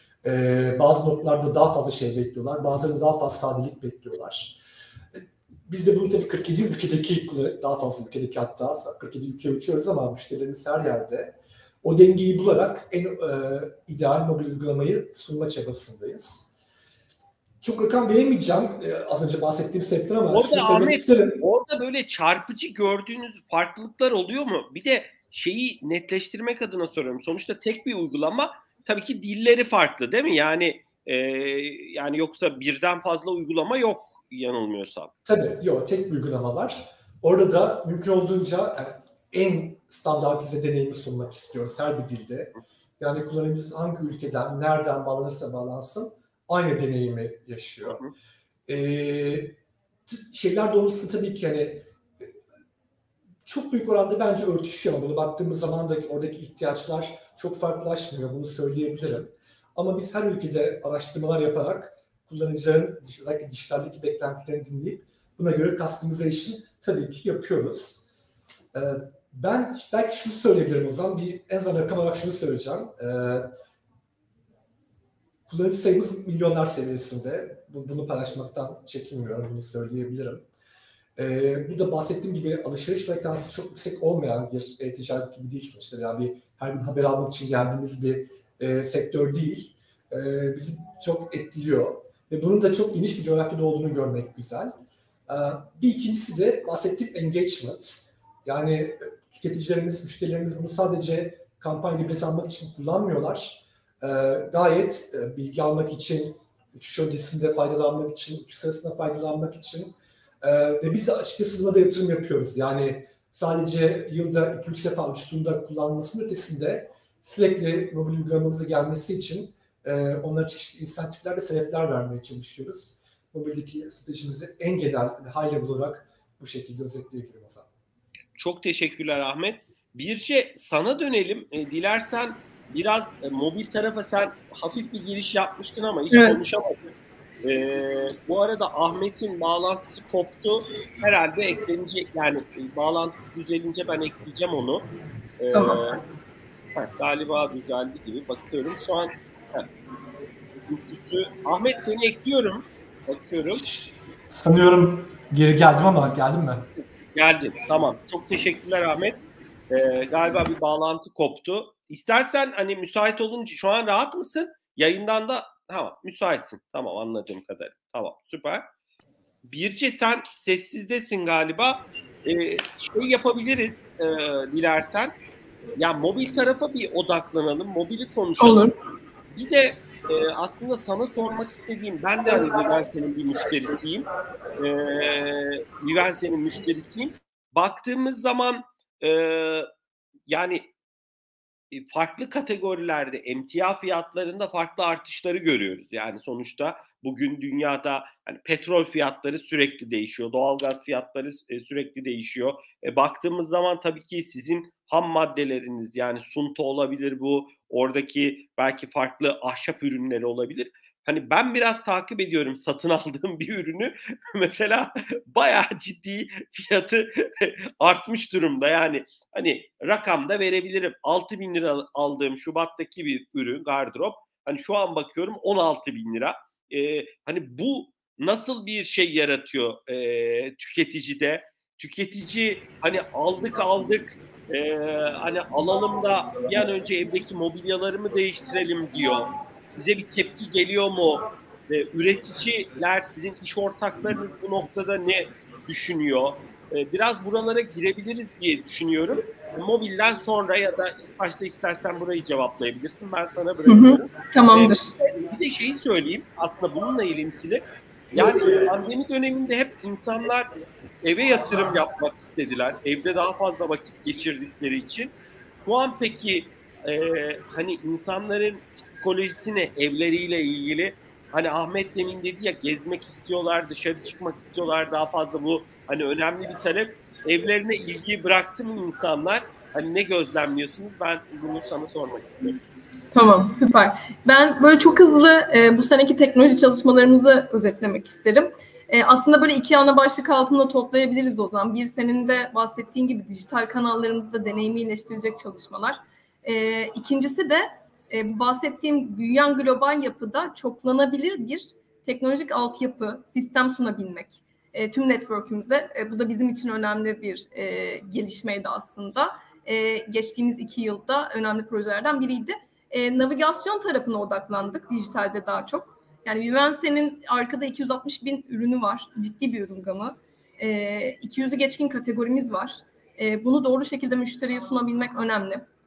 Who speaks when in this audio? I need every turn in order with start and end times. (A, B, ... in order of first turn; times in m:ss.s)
0:00.2-0:04.6 A
0:05.1-0:16.5 A
0:17.6-0:21.4 A
0:20.3-0:35.1 B
0:35.2-0:48.0 A
0:47.8-0:48.1 B
0:48.7-0:51.9 A
0:53.5-1:08.1 A
1:08.7-1:13.5 A
1:15.5-1:20.4 A
1:21.2-1:34.7 A
1:35.3-2:07.7 A
2:08.4-2:24.8 B
2:16.1-2:16.4 C
2:25.4-2:26.0 B
2:25.5-2:25.9 C
2:26.8-2:29.7 B
2:30.7-2:33.6 B
2:33.5-2:36.7 A
2:36.8-2:39.2 B
2:39.7-2:48.7 B
2:49.4-2:55.2 B
2:55.8-2:58.6 B
2:58.4-2:58.7 C
2:59.3-3:04.1 B
3:04.6-3:09.7 B
3:10.3-3:10.7 B
3:11.7-4:20.5 B
4:13.7-4:14.9 C
4:21.0-4:25.1 B
4:25.6-4:42.6 B
4:43.1-5:25.6 C